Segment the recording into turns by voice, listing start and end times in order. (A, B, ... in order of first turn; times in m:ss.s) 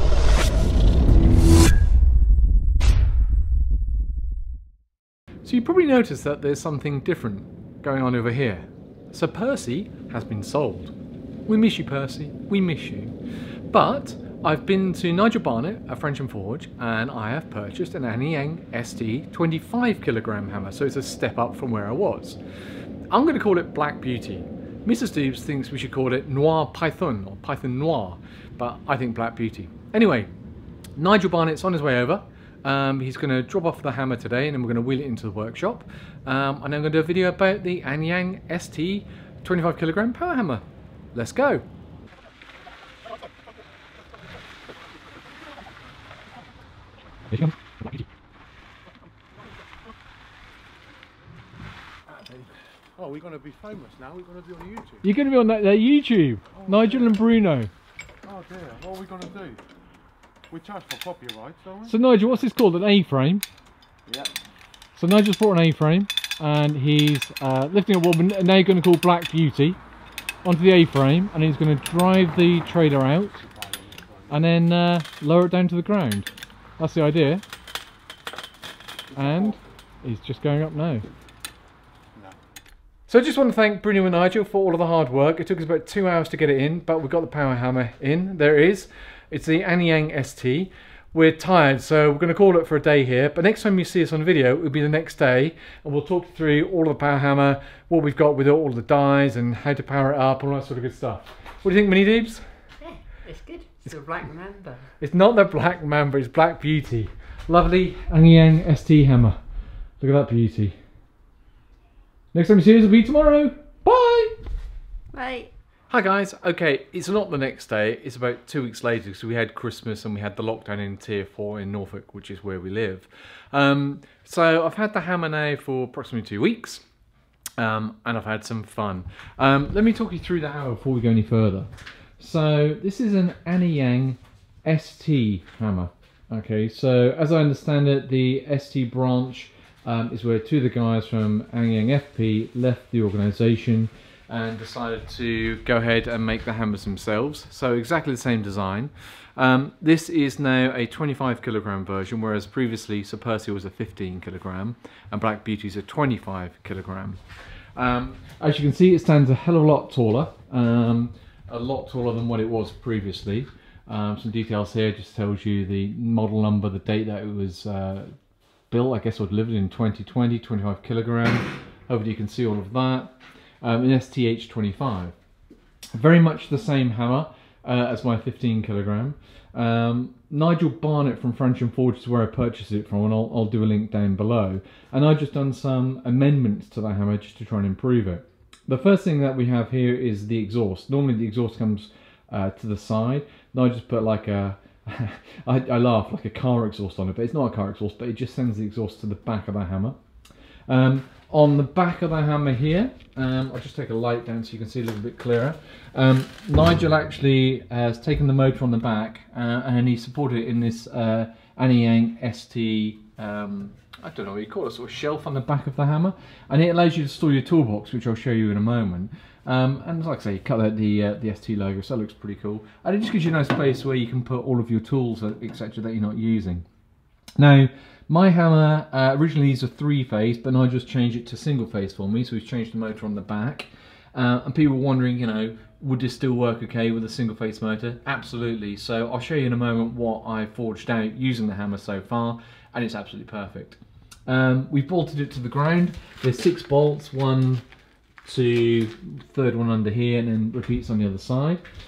0:05.4-0:10.9 A
0:11.5-0:13.1 A
0:13.7-0:22.4 A
0:23.1-0:30.3 A
0:31.0-0:41.6 A
0:47.3-0:48.1 A
0:53.0-0:55.0 B
0:55.0-0:57.7 A
0:56.5-0:57.2 B
0:58.2-0:59.6 B
1:00.5-1:02.0 B
1:01.9-1:03.4 A
1:04.1-1:04.3 B
1:05.0-1:09.8 A
1:10.4-1:13.4 A
1:13.4-1:14.4 B
1:14.3-1:17.4 A
1:19.1-1:19.6 B
1:19.2-1:21.1 A
1:23.1-1:42.4 A
1:42.8-1:44.9 C
1:45.0-1:49.4 A
1:50.0-1:50.8 A
1:52.3-1:54.4 A
1:55.1-1:55.5 C
1:55.9-2:06.8 A
2:07.6-2:11.7 A
2:12.2-2:37.2 A
2:37.8-2:48.1 A
2:48.7-2:55.2 A
2:56.0-3:20.0 A
3:20.7-3:46.6 A
3:47.4-4:07.6 A
4:08.2-4:11.6 A